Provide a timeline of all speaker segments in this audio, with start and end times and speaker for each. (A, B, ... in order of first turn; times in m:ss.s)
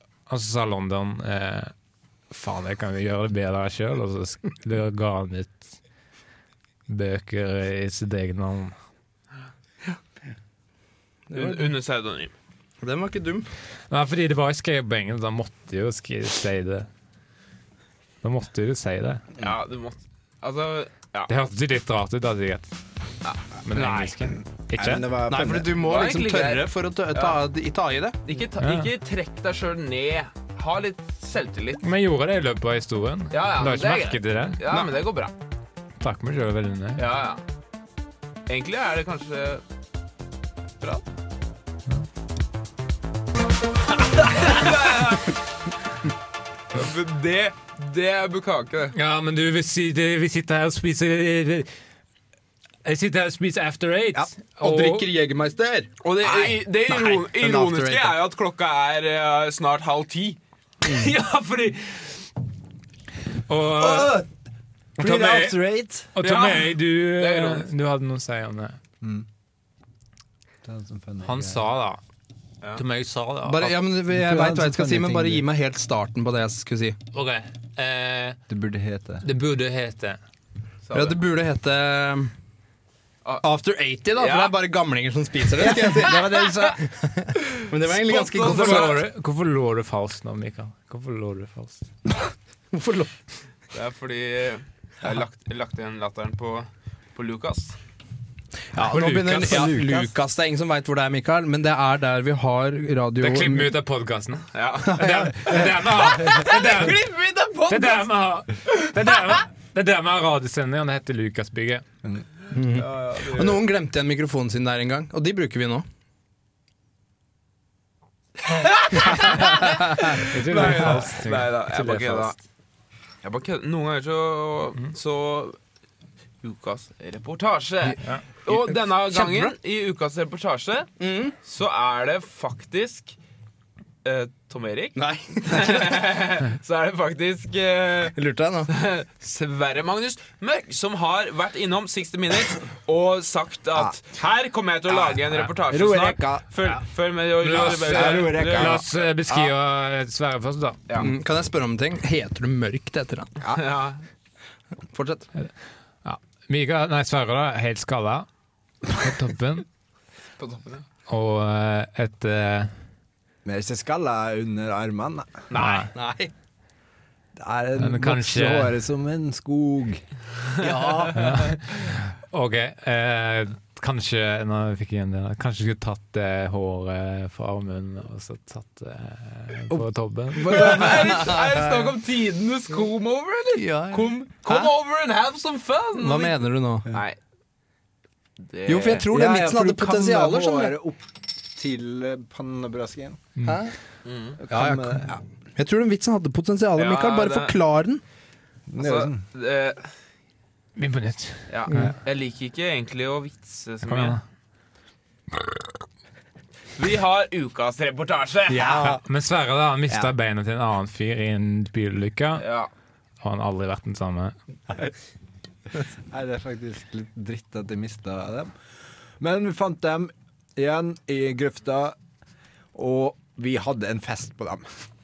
0:00.3-0:01.7 A
0:02.3-0:05.8 A
0:06.9-0:08.8 A
0:11.3-0:11.7 B
0:11.3-0:12.3 C
0:12.8-0:13.5 B
0:13.9-0:16.9 A
0:18.2-0:19.2 A
0:19.4-0:21.3 C
0:21.3-0:22.7 A
0:23.6-0:25.1 A
0:24.7-0:25.8 D
0:25.3-0:28.2 B
0:25.8-0:27.4 C
0:28.2-0:31.8 C
0:28.6-0:28.9 A
0:31.8-0:34.6 A
0:33.3-0:35.3 C
0:36.0-0:37.0 A
0:37.0-0:37.4 C
0:38.5-0:39.6 C
0:44.2-0:45.3 C
0:46.7-0:48.9 C
0:48.9-0:51.7 A
0:52.8-0:55.1 A
0:54.5-0:58.2 B
0:56.0-1:00.4 C
1:00.8-1:01.1 B
1:00.8-1:02.0 A
1:03.5-1:04.2 A
1:03.7-1:04.3 D
1:05.0-1:06.1 D
1:05.0-1:05.6 A
1:06.1-1:08.8 A
1:06.2-1:07.7 C
1:09.0-1:09.3 D
1:10.6-1:11.6 D
1:11.2-1:12.0 A
1:12.8-1:13.8 A
1:13.4-1:17.0 B
1:14.1-1:15.4 D
1:17.1-1:18.4 A
1:18.5-1:19.2 D
1:19.2-1:20.2 A
1:20.8-1:21.2 C
1:20.9-1:22.3 B
1:23.4-1:29.0 B
1:24.1-1:24.6 C
1:25.6-1:26.8 D
1:27.5-1:29.0 C
1:28.4-1:31.8 A
1:32.7-1:33.1 B
1:33.7-1:37.8 C
1:38.7-1:43.7 B
1:38.9-1:39.7 A
1:39.4-1:40.0 D
1:43.2-1:47.0 A
1:44.5-1:48.1 C
1:44.9-1:45.3 B
1:47.7-1:51.8 A
1:52.5-1:55.8 B
1:52.8-1:53.6 C
1:58.5-2:02.4 C
1:59.1-1:59.6 A
2:00.1-2:02.4 A
2:03.2-2:05.6 C
2:06.4-2:13.2 C
2:08.5-2:09.5 B
2:11.0-2:11.3 B
2:14.0-2:18.2 C
2:15.0-2:16.1 B
2:18.1-2:18.7 B
2:18.7-2:28.8 C
2:25.7-2:26.4 D
2:27.4-2:30.9 A
2:27.5-2:28.8 D
2:31.0-2:33.3 B
2:33.5-2:34.0 C
2:34.9-2:35.3 B
2:36.0-2:38.3 A
2:38.9-2:39.6 A
2:40.4-2:40.8 C
2:41.1-2:42.7 A
2:43.4-2:45.4 D
2:45.5-2:45.9 C
2:45.5-2:45.9 A
2:45.9-2:46.3 B
2:47.4-2:50.0 D
2:47.8-2:48.8 A
2:50.6-2:51.3 B
2:51.1-3:00.8 A
3:00.4-3:00.7 D
3:00.5-3:06.4 C
3:03.6-3:04.7 B
3:05.9-3:06.9 B
3:06.9-3:07.2 C
3:08.4-3:09.1 C
3:08.6-3:10.8 B
3:09.1-3:13.3 D
3:13.4-3:13.7 B
3:14.0-3:14.4 C
3:14.4-3:15.2 D
3:14.5-3:18.0 B
3:16.8-3:17.6 C
3:18.7-3:19.2 D
3:18.8-3:19.9 C
3:20.8-3:21.9 A
3:21.5-3:24.2 C
3:23.8-3:24.2 A
3:26.8-3:28.9 C
3:28.5-3:29.0 B
3:28.8-3:32.4 A
3:32.4-3:32.7 C
3:33.2-3:34.4 A
3:36.1-3:38.5 D
3:39.2-3:42.0 D
3:42.7-3:44.7 D